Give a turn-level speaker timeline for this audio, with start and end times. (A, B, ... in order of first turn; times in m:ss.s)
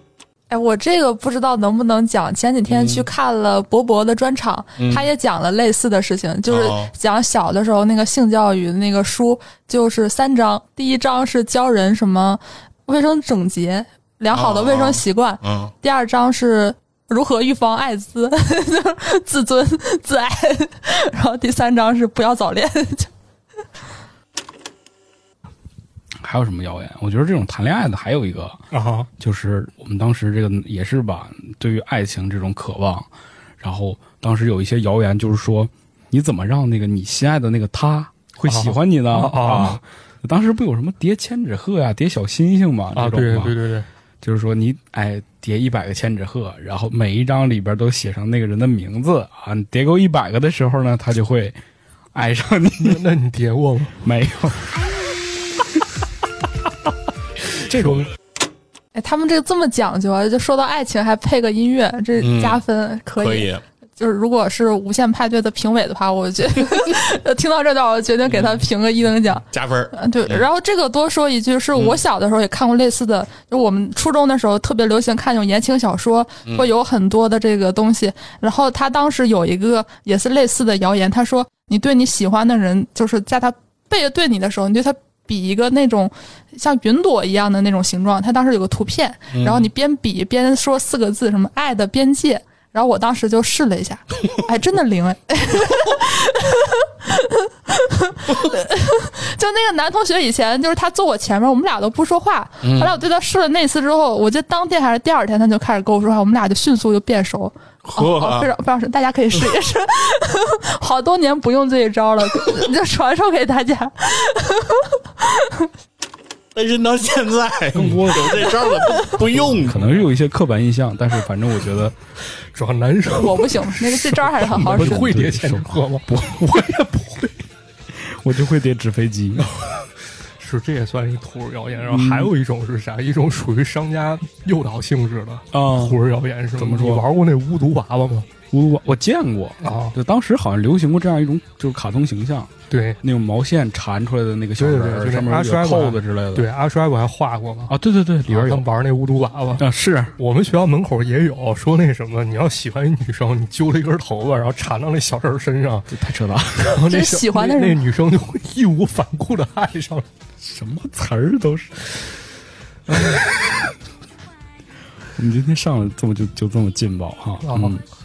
0:00.5-0:23.1 A
0:02.7-0:03.0 B
0:04.8-0:05.1 B
0:06.5-0:06.9 B
0:14.3-0:15.7 B
0:26.2-0:28.6 C
0:28.7-0:29.1 D
0:29.2-0:33.1 C
0:33.6-0:43.5 C
0:38.4-0:39.8 D
0:42.9-0:43.9 D
0:44.2-0:51.6 C
0:52.1-0:53.0 C
0:52.8-0:54.0 D
0:54.0-0:54.9 C
0:57.6-0:58.1 C
0:57.7-0:58.1 D
0:58.9-1:55.7 A
1:02.2-1:02.6 B
1:03.2-1:03.6 B
1:08.3-1:08.6 B
1:09.5-1:10.4 B
1:29.3-1:29.7 B
1:42.6-1:43.0 B
1:47.8-1:48.5 B
1:56.5-1:59.9 B
1:57.7-1:58.6 C
1:59.3-2:01.9 C
1:59.4-2:00.0 D
2:02.5-2:07.3 D
2:03.2-2:05.0 A
2:04.4-2:06.8 C
2:07.9-2:09.5 C
2:09.4-2:18.3 D
2:11.9-2:12.3 C
2:15.5-2:16.0 C
2:16.6-2:17.0 C
2:18.5-2:26.5 C
2:19.6-2:20.0 D
2:22.7-2:23.0 D
2:24.6-2:27.8 D
2:27.7-2:28.6 C
2:28.3-2:29.6 D
2:29.6-2:30.1 C
2:30.2-2:35.9 D
2:35.9-2:36.8 C
2:36.6-2:40.1 D
2:36.9-2:37.8 A
2:40.4-2:41.9 C
2:42.9-2:43.7 C
2:45.2-2:47.8 C
2:47.4-2:47.8 D